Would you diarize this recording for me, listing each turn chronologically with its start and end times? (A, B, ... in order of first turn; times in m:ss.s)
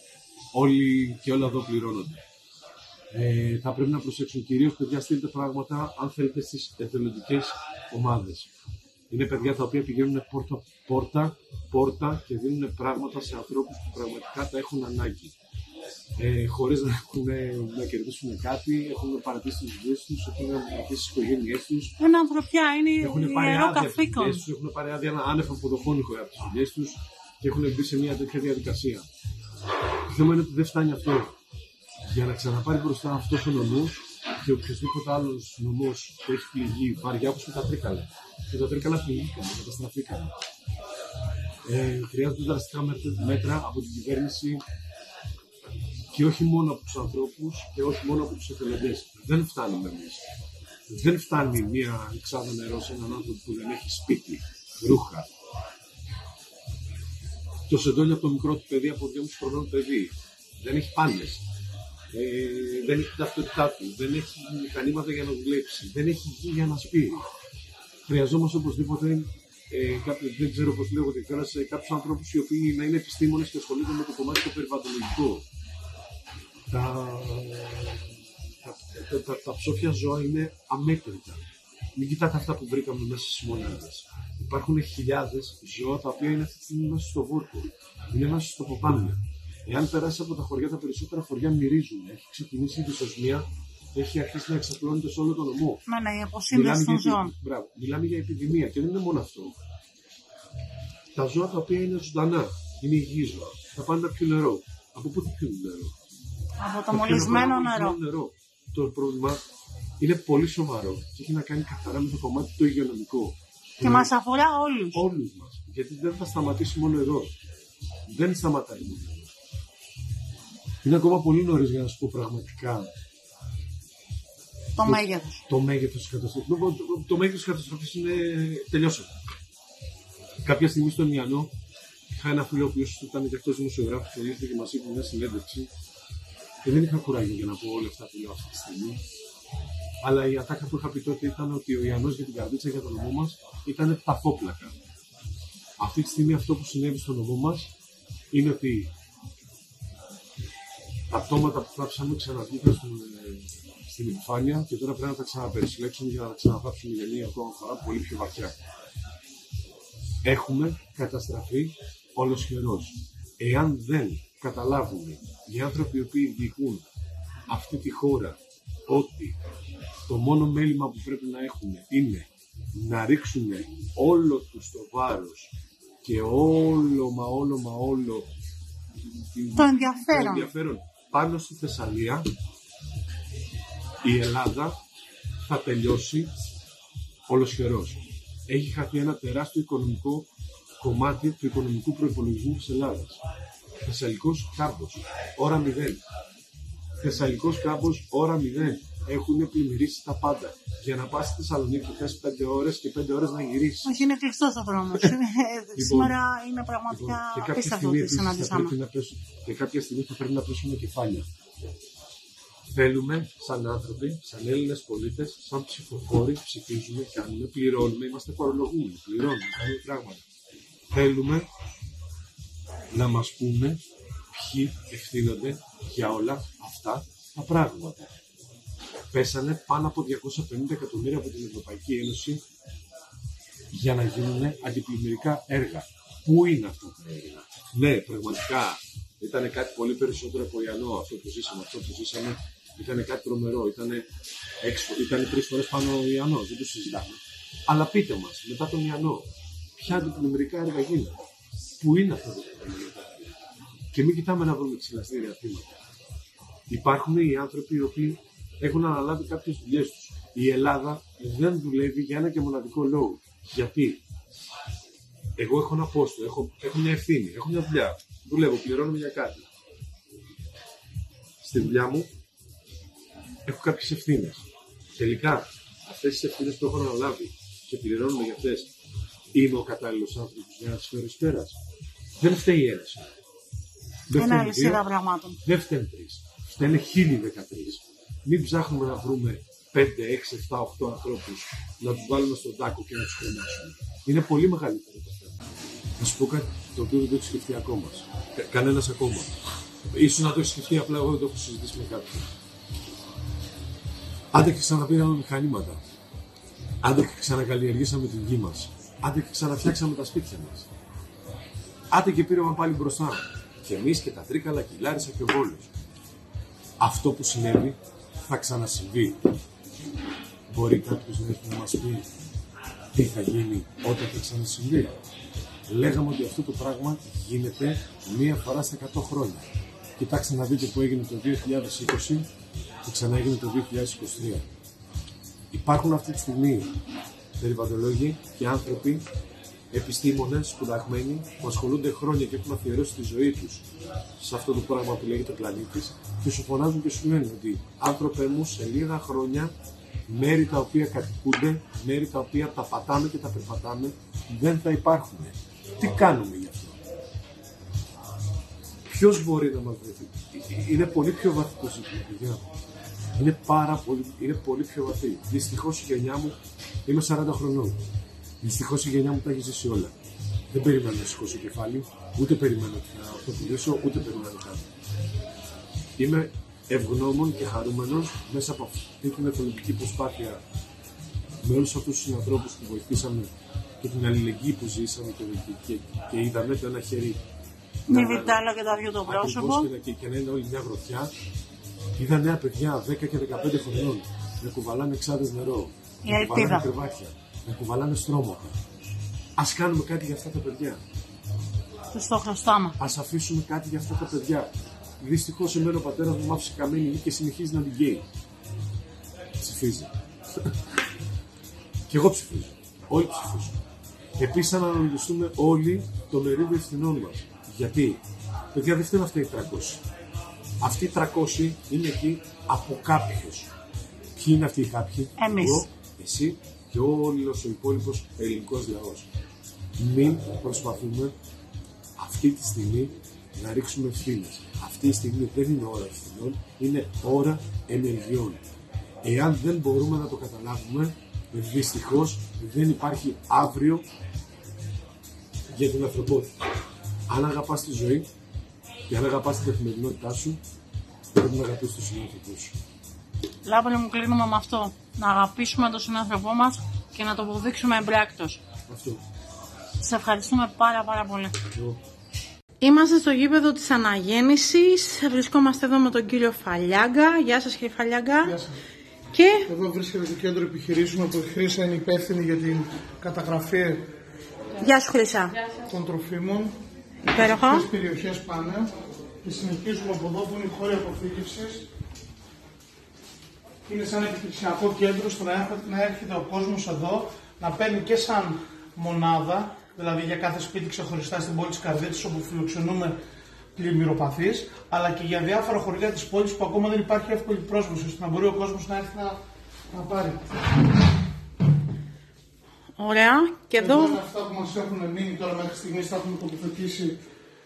0:00.5-0:02.2 A
0:03.1-0:08.5 A
0:09.1-0:15.4 A
0:16.2-0:22.0 A
0:22.0-0:24.4 B
0:23.0-0:29.1 A
0:30.1-0:31.3 A
0:32.0-0:40.3 A
0:41.6-0:44.6 A
0:46.1-0:50.2 A
0:50.9-0:55.3 A
0:57.7-1:01.4 A
1:02.1-1:07.3 A
1:08.1-1:15.4 A
1:16.7-1:21.4 A
1:22.0-1:35.8 A
1:35.9-1:37.3 B
1:36.5-1:39.6 A
1:41.2-1:45.9 A
1:46.6-1:48.0 B
1:46.9-1:49.4 A
1:50.0-1:54.1 A
1:53.8-1:55.0 B
1:54.9-1:57.4 A
1:58.1-1:59.3 A
2:00.8-2:02.9 A
2:04.8-2:05.4 B
2:04.8-2:09.1 A
2:10.4-2:11.5 A
2:12.1-2:15.7 A
2:16.6-2:19.0 A
2:20.0-2:24.8 A
2:25.8-2:27.7 A
2:28.3-2:28.9 A
2:31.1-2:38.5 A
2:40.2-2:46.8 A
2:47.5-2:49.4 A
2:50.1-2:55.5 A
2:56.0-2:58.3 A
2:59.1-3:02.3 A
2:59.6-3:00.5 B
3:04.0-3:04.8 A
3:05.4-3:06.3 A
3:07.3-3:10.3 A
3:10.8-3:13.2 A
3:13.8-3:16.0 A
3:17.0-3:24.0 A
3:23.8-3:28.8 B
3:25.8-3:26.2 A
3:26.9-3:31.3 A
3:32.7-3:40.2 A
3:40.9-3:41.5 A
3:42.9-3:48.1 A
3:49.1-3:52.4 A
3:53.7-4:04.1 A
4:04.6-4:09.3 A
4:09.8-4:11.2 A
4:11.8-4:13.3 A
4:13.9-4:15.8 A
4:16.7-4:24.0 A
4:25.4-4:29.5 A
4:31.4-4:32.1 A
4:33.5-4:34.4 A
4:35.0-4:38.7 A
4:39.3-4:41.6 A
4:42.2-4:43.1 A
4:44.1-4:44.8 A
4:44.2-4:45.4 B
4:45.4-4:55.4 A
4:56.0-4:59.4 A
4:59.9-5:02.3 A
5:04.3-5:05.8 A
5:06.8-5:10.7 A
5:11.9-5:15.7 A
5:16.8-5:19.3 A
5:20.5-5:22.1 A
5:23.0-5:25.0 A
5:25.7-5:29.5 A
5:30.0-5:32.3 A
5:32.8-5:34.5 A
5:35.5-5:36.7 A
5:37.4-5:39.0 A
5:39.7-5:43.7 A
5:44.2-5:49.5 A
5:50.1-5:56.8 A
5:58.9-6:02.5 A
6:03.2-6:07.8 A
6:08.4-6:09.9 A
6:10.5-6:14.7 A
6:16.0-6:20.4 A
6:21.4-6:23.3 A
6:23.8-6:27.2 A
6:27.9-6:29.7 B
6:27.9-6:28.4 A
6:29.1-6:31.1 A
6:32.0-6:38.6 A
6:36.0-6:36.7 B
6:39.4-6:40.8 A
6:41.9-6:42.8 B
6:42.8-6:48.0 A
6:49.4-6:50.5 A
6:51.9-6:53.6 A
6:54.2-6:58.0 A
6:58.5-6:59.8 A
7:00.6-7:03.5 A
7:04.2-7:09.1 A
7:05.2-7:05.7 B
7:09.8-7:11.1 A
7:12.0-7:18.4 A
7:19.0-7:23.9 A
7:25.5-7:26.3 A
7:27.1-7:28.1 A
7:28.9-7:30.4 A
7:31.1-7:32.6 A
7:33.4-7:38.4 B
7:38.7-7:39.0 A
7:39.8-7:41.4 B
7:41.5-7:41.8 A
7:42.6-7:48.4 B
7:48.2-7:48.6 C
7:49.1-7:49.5 B
7:49.5-7:53.9 C
7:54.6-7:55.4 B
7:55.7-7:56.6 C
7:57.1-7:57.7 B
7:57.2-7:58.7 C
7:59.2-8:01.7 C
8:03.6-8:13.0 C
8:13.6-8:19.2 C
8:19.7-8:20.4 C
8:22.8-8:24.0 B
8:23.6-8:27.0 C